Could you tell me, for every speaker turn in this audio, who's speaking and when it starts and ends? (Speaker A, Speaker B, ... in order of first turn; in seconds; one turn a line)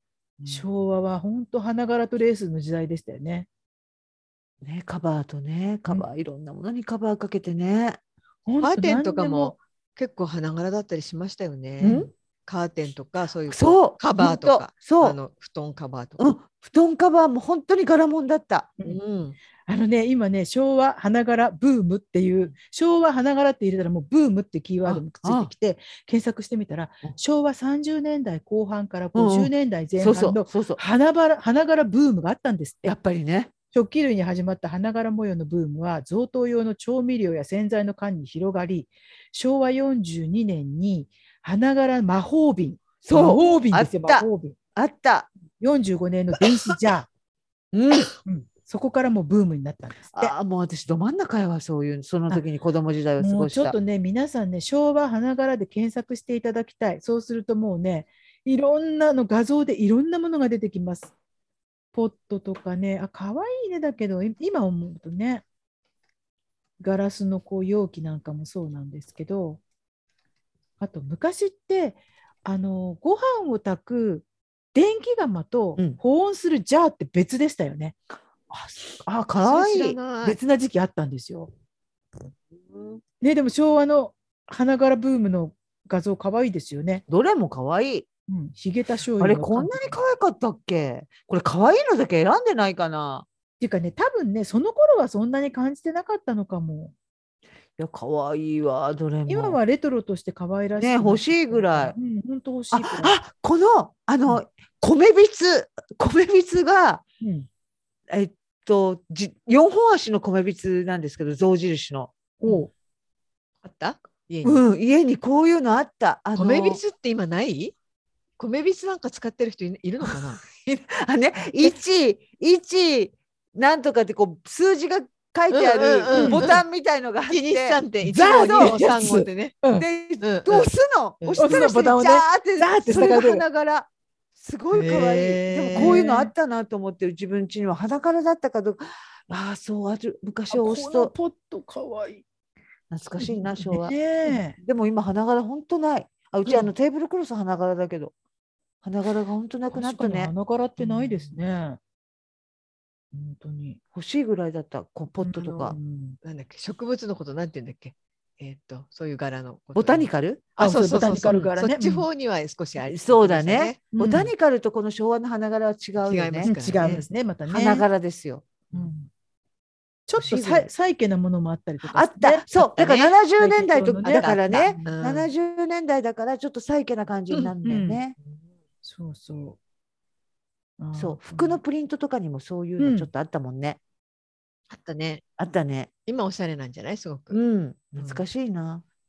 Speaker A: 0.5-3.5
Speaker B: 4.6-8.0
Speaker A: 8.5-9.6
Speaker C: 8.6-16.2
Speaker B: 11.8-12.1
Speaker A: 11.8-12.1
Speaker B: 13.5-15.2
Speaker B: 16.2-18.7
Speaker C: 18.8-19.4
Speaker A: 19.7-32.9
Speaker B: 24.9-25.5
Speaker B: 29.1-30.8
Speaker B: 32.8-33.5
Speaker A: 33.7-44.5
Speaker B: 43.0-45.3
Speaker A: 45.6-47.1
Speaker B: 47.7-48.1
Speaker A: 48.2-50.3
Speaker B: 50.1-53.8
Speaker A: 53.2-61.1
Speaker A: 61.9-65.4
Speaker A: 66.8-69.6
Speaker A: 70.8-78.0
Speaker B: 79.0-80.0
Speaker C: 79.4-80.4
Speaker A: 80.2-81.5
Speaker A: 83.2-87.0
Speaker B: 87.1-88.1
Speaker A: 88.3-90.0
Speaker B: 89.2-93.2
Speaker A: 93.6-96.9
Speaker B: 97.8-99.6
Speaker A: 99.3-103.2
Speaker B: 100.8-101.9
Speaker B: 102.7-107.0
Speaker A: 107.2-107.5
Speaker B: 108.1-112.1
Speaker A: 112.4-112.7
Speaker C: 113.6-114.6
Speaker B: 114.4-116.8
Speaker C: 116.3-117.7
Speaker C: 118.4-120.4
Speaker B: 120.6-127.8
Speaker C: 125.5-126.6
Speaker A: 126.1-126.5
Speaker C: 127.3-129.6
Speaker A: 128.0-129.8
Speaker B: 129.7-141.1
Speaker C: 130.2-130.7
Speaker C: 131.2-131.6
Speaker A: 131.4-133.4
Speaker C: 134.7-136.0
Speaker A: 135.7-136.3
Speaker A: 140.5-142.2
Speaker B: 142.9-144.0
Speaker A: 143.2-144.6
Speaker B: 144.5-148.1
Speaker B: 148.8-150.3
Speaker A: 149.7-151.8
Speaker C: 150.9-151.3
Speaker A: 153.1-153.8
Speaker B: 153.9-155.8
Speaker A: 155.2-156.2
Speaker C: 156.2-163.8
Speaker B: 159.7-160.5
Speaker A: 160.6-162.1
Speaker B: 162.8-166.9
Speaker A: 163.9-164.3
Speaker C: 166.0-167.0
Speaker A: 166.4-167.8
Speaker B: 167.5-168.5
Speaker A: 168.7-169.1
Speaker A: 170.1-172.7
Speaker B: 170.2-170.7
Speaker B: 171.8-178.2
Speaker C: 172.8-173.1
Speaker A: 173.4-174.9
Speaker C: 174.0-175.3
Speaker A: 177.6-178.0
Speaker A: 178.8-179.6
Speaker A: 180.8-181.6
Speaker B: 180.9-183.8
Speaker A: 182.8-183.1
Speaker C: 184.7-185.2
Speaker B: 185.4-185.9
Speaker C: 186.1-187.4
Speaker B: 187.3-188.8
Speaker C: 188.0-188.2